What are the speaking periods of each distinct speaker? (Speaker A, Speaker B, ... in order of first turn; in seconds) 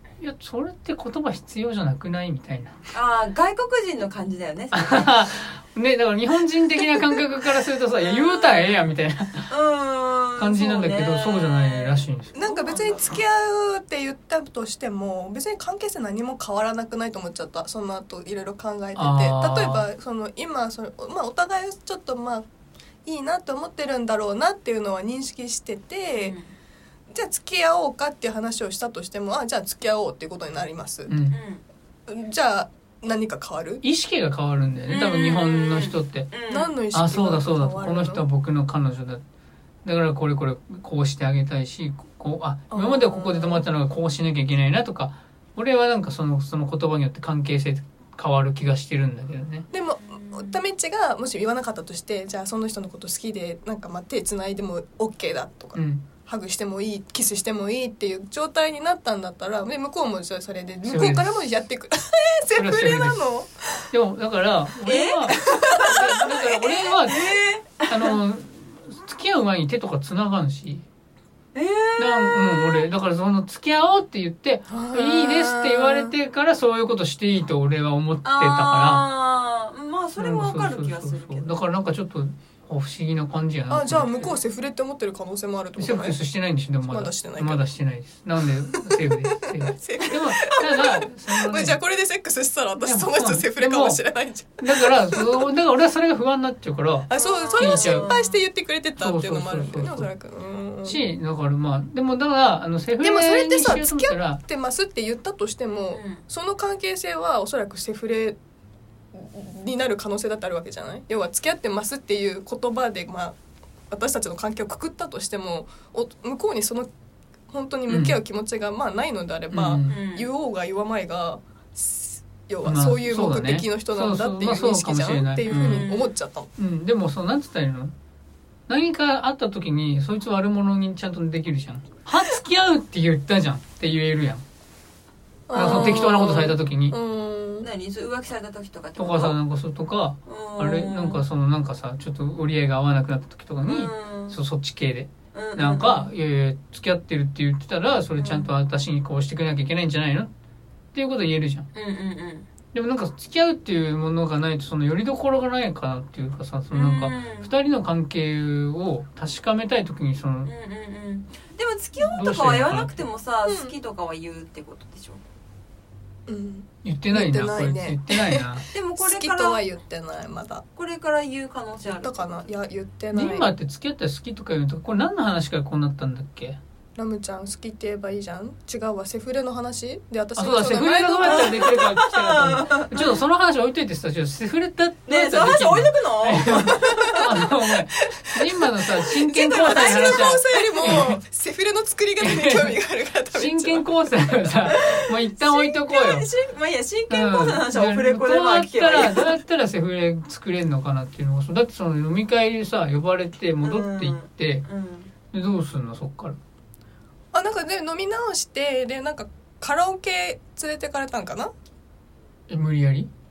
Speaker A: 0.2-2.8, 4.7-9.5, 10.4-12.3, 18.9-19.9, 31.1-31.4, 33.8-36.3, 36.9-39.2, 39.9-49.7, 55.8-56.0, 60.9-61.4, 62.5-63.3, 63.9-70.8, 72.0-79.1, 80.2-84.4, 85.8-91.8, 92.8-94.0, 94.6-98.1, 99.0-100.1, 100.8-104.4, 117.9-118.2, 119.5-120.0, 122.6-125.9, 126.6-127.9, 128.7-134.4, 135.5-137.0, 139.0-150.3, 150.9-151.7, 152.7-160.5, 162.0-163.0, 166.8-168.7, 173.1-176.6, 180.4-191.2, 192.2-192.8, 193.3-196.3, 197.1-204.7, 205.3-206.4, 212.5-213.1
Speaker B: 2.9-5.3, 8.0-8.8, 9.5-13.1, 26.2-26.5, 31.3-31.6, 34.9-36.7, 50.1-50.5, 64.8-68.2, 71.5-72.9, 78.2-81.6, 97.1-98.4, 105.9-106.2, 119.9-120.3, 125.5-126.1, 135.6-136.3, 137.6-139.4, 140.3-141.2, 143.7-144.4, 145.3-146.1, 148.2-148.5, 151.7-152.5, 156.7-157.5, 160.4-165.2, 168.7-169.6, 170.8-172.5, 181.3-183.2, 185.1-187.3, 189.7-190.2, 194.7-199.4, 203.6-205.1
Speaker C: 12.3-22.5, 23.1-26.4, 27.1-31.1, 32.1-33.8, 36.5-38.2, 42.7-43.7, 49.7-63.8, 65.3-66.4, 74.7-75.7, 83.7-86.2, 86.9-87.6, 88.8-95.5, 97.1-101.0, 103.0-108.4, 109.1-113.4, 113.9-116.9, 117.5-126.5, 135.5-137.7, 163.5-163.7, 166.3-170.7, 171.9-173.5, 177.0-181.8, 186.8-187.3, 188.5-193.9, 207.3-211.5